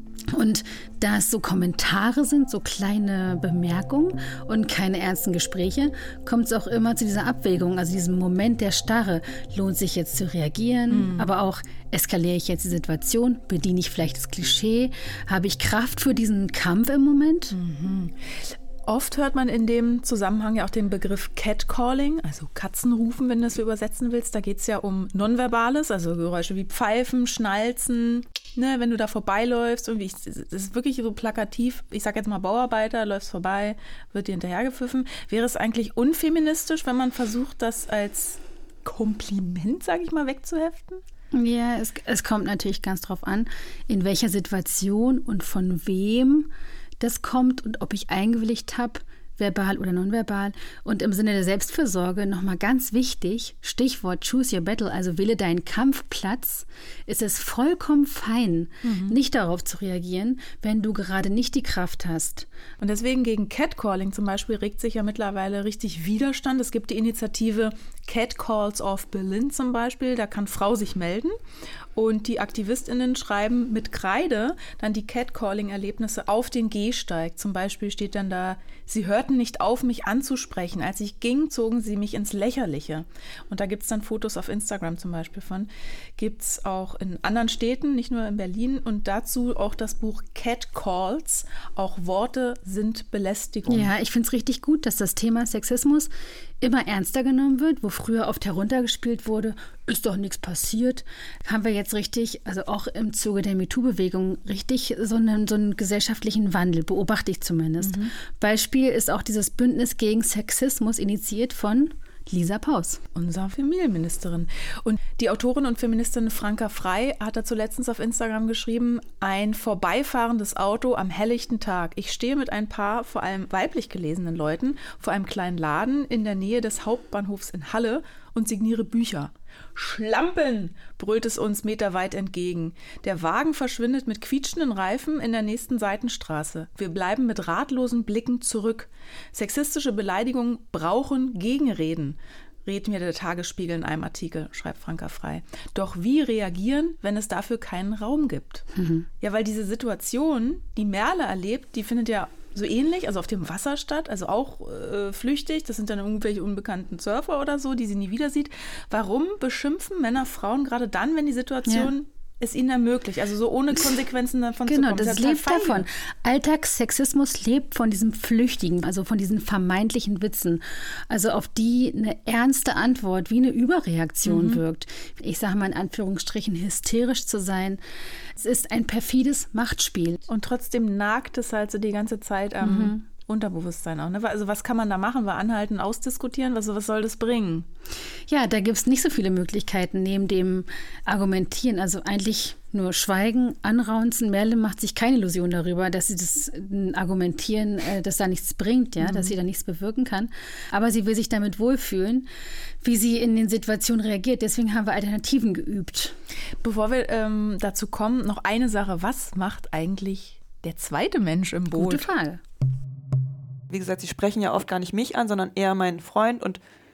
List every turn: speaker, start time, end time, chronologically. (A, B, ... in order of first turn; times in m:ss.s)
0:00.3-0:17.6 A
0:10.9-0:11.3 B
0:17.5-0:41.0 B
0:41.3-1:02.5 A
0:58.8-0:59.2 B
1:02.8-1:11.4 B
1:12.0-1:33.9 B
1:33.7-1:36.1 A
1:36.6-1:53.0 A
1:47.8-1:48.1 B
1:53.2-2:28.7 B
2:28.8-2:29.1 A
2:29.2-2:45.9 B
2:41.7-2:41.9 A
2:44.7-2:57.8 A
2:54.2-2:54.6 B
2:58.4-3:00.2 A
3:00.3-3:07.7 B
3:02.6-3:03.0 A
3:08.3-3:22.3 A
3:19.0-3:19.4 B
3:22.8-3:26.2 A
3:26.6-3:32.1 B
3:31.7-3:32.4 A
3:33.7-3:36.6 C